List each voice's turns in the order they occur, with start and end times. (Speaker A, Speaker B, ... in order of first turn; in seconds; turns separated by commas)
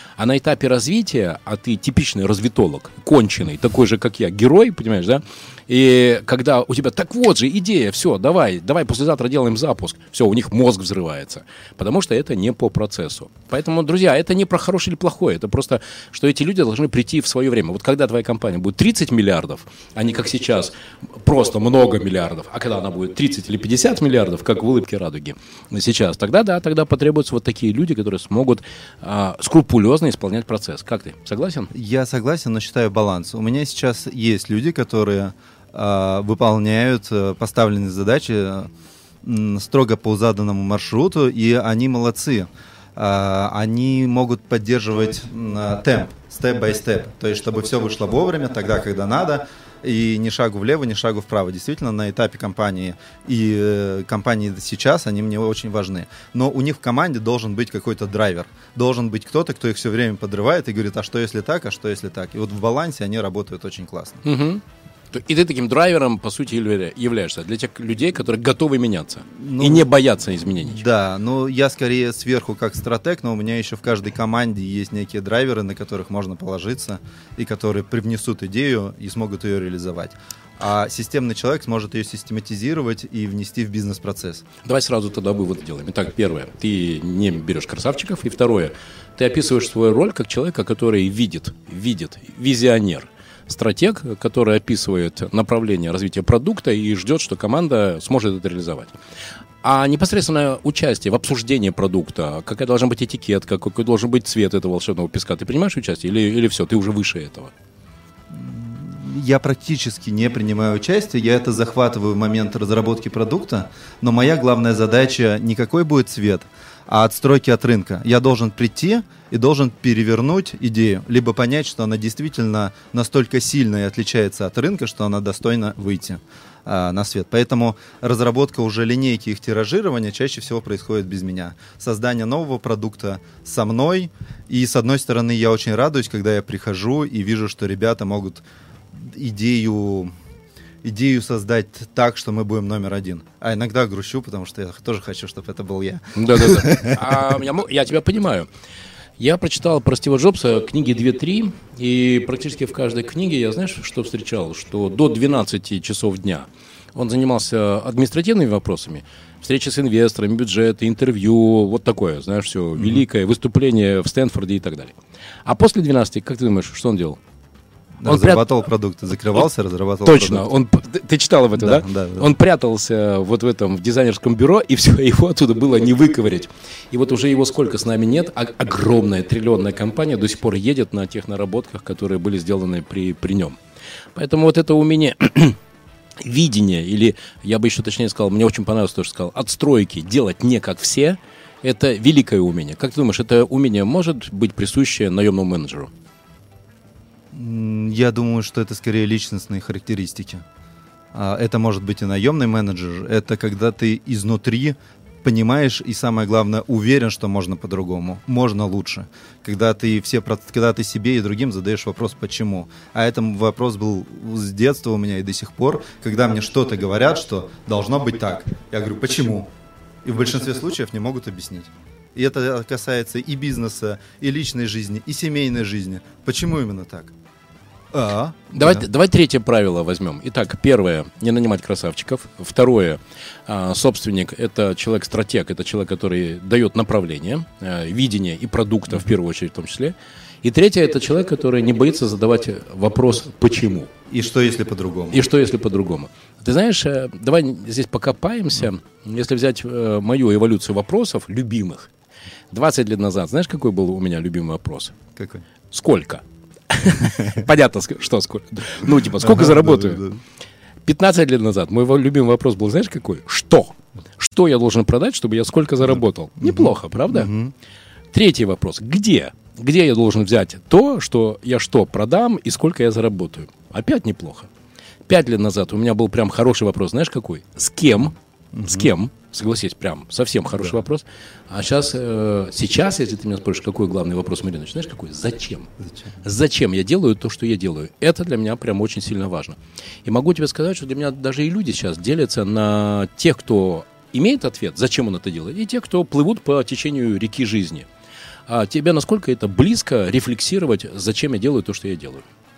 Speaker A: 0.2-31.7, Speaker B: 31.7-38.7, Speaker B: 39.2-64.2, Speaker A: 64.2-70.9, Speaker B: 69.3-69.9, Speaker B: 70.6-84.5, Speaker A: 84.7-99.0, Speaker A: 99.6-107.5, Speaker B: 108.3-140.1, Speaker B: 140.8-147.1, Speaker A: 146.2-148.5, Speaker A: 149.2-167.2, Speaker B: 168.0-170.5, Speaker A: 168.1-168.5, Speaker A: 170.1-183.6, Speaker B: 171.6-172.3, Speaker A: 184.2-185.6, Speaker A: 186.2-195.9, Speaker B: 197.3-200.4, Speaker B: 201.1-219.5, Speaker B: 220.0-227.1, Speaker B: 227.9-228.9, Speaker A: 228.5-243.9, Speaker B: 244.1-245.2, Speaker A: 245.1-251.9, Speaker A: 252.5-255.0, Speaker B: 255.2-255.4, Speaker A: 255.7-260.0, Speaker B: 259.2-260.2, Speaker A: 260.9-267.4, Speaker B: 266.4-267.5, Speaker A: 268.1-274.5, Speaker A: 275.1-285.7, Speaker B: 278.5-278.9, Speaker A: 286.2-297.9, Speaker A: 298.5-302.2